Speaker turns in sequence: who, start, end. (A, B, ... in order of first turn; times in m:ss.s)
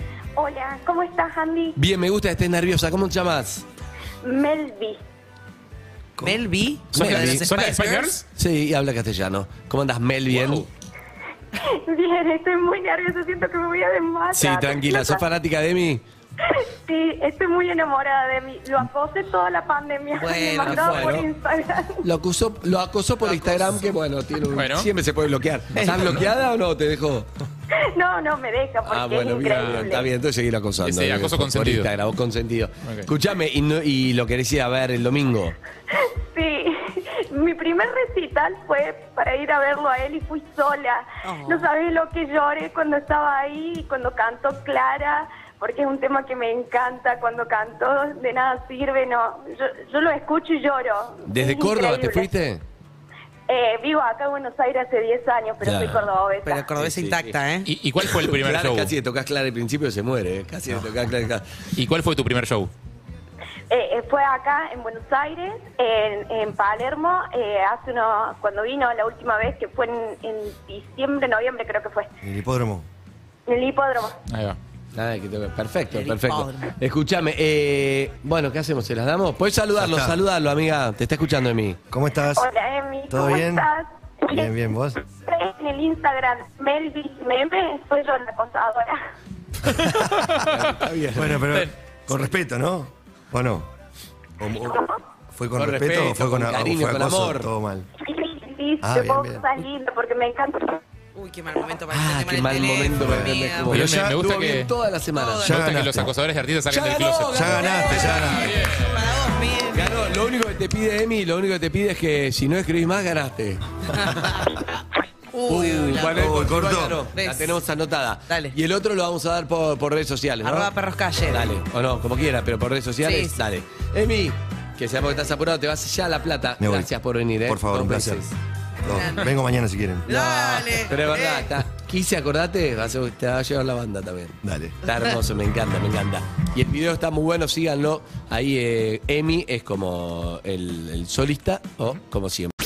0:00.4-0:01.8 A
0:01.8-0:03.6 B
0:04.2-0:05.0 A
0:06.2-0:06.4 C
0:06.2-0:08.2 D
0:06.9-0:07.5 B
0:06.9-0:08.2 E
0:08.3-0:10.7 B
0:10.3-0:10.6 E
0:11.6-0:15.2 A
0:14.3-0:16.0 B
0:16.4-0:22.1 A
0:20.2-0:21.2 D
0:20.6-0:21.3 B
0:22.0-0:27.3 B
0:23.2-0:23.8 D
0:24.5-0:24.9 E
0:25.7-0:26.1 D
0:25.8-0:26.3 E
0:27.7-0:30.1 A
0:28.8-0:35.5 B
0:29.5-0:30.0 E
0:30.8-0:31.9 E
0:32.8-0:33.1 E
0:35.9-0:52.5 A
0:41.2-0:41.7 D
0:51.3-0:52.6 B
0:53.5-0:56.7 A
0:55.6-0:56.1 B
0:56.4-0:57.7 D
0:56.8-0:57.3 B
0:57.6-0:58.9 E
0:58.0-1:01.4 B
1:01.8-1:02.7 E
1:03.7-1:12.1 A
1:12.2-1:12.9 C
1:13.5-1:14.2 A
1:14.3-1:14.6 E
1:14.9-1:21.8 B
1:15.9-1:16.7 D
1:19.8-1:20.2 C
1:21.9-1:22.5 C
1:22.3-1:24.5 A
1:23.1-1:23.7 C
1:24.3-1:25.0 C
1:25.2-1:29.0 A
1:29.6-1:30.4 C
1:30.0-1:30.6 E
1:30.4-1:31.4 B
1:31.1-1:33.7 C
1:34.4-1:37.9 C
1:34.6-1:35.0 A
1:35.6-1:37.5 B
1:38.0-1:40.8 A
1:38.8-1:39.5 C
1:41.1-1:43.7 D
1:41.9-1:45.4 B
1:43.0-1:44.2 C
1:43.7-1:44.7 E
1:45.1-1:45.6 D
1:45.4-1:46.1 C
1:45.4-1:49.1 E
1:46.7-1:48.4 B
1:47.3-1:48.6 C
1:47.7-1:50.1 D
1:49.7-1:54.3 B
1:53.9-1:54.6 D
1:55.3-1:56.3 D
1:55.4-2:00.7 B
1:56.0-1:57.1 C
1:57.2-1:57.6 D
1:58.3-1:58.5 D
2:00.4-2:01.6 D
2:01.2-2:08.4 B
2:03.0-2:03.4 D
2:06.6-2:08.3 C
2:08.8-2:10.2 C
2:08.8-2:09.3 D
2:10.0-2:11.5 D
2:10.0-2:22.5 B
2:14.4-2:14.8 C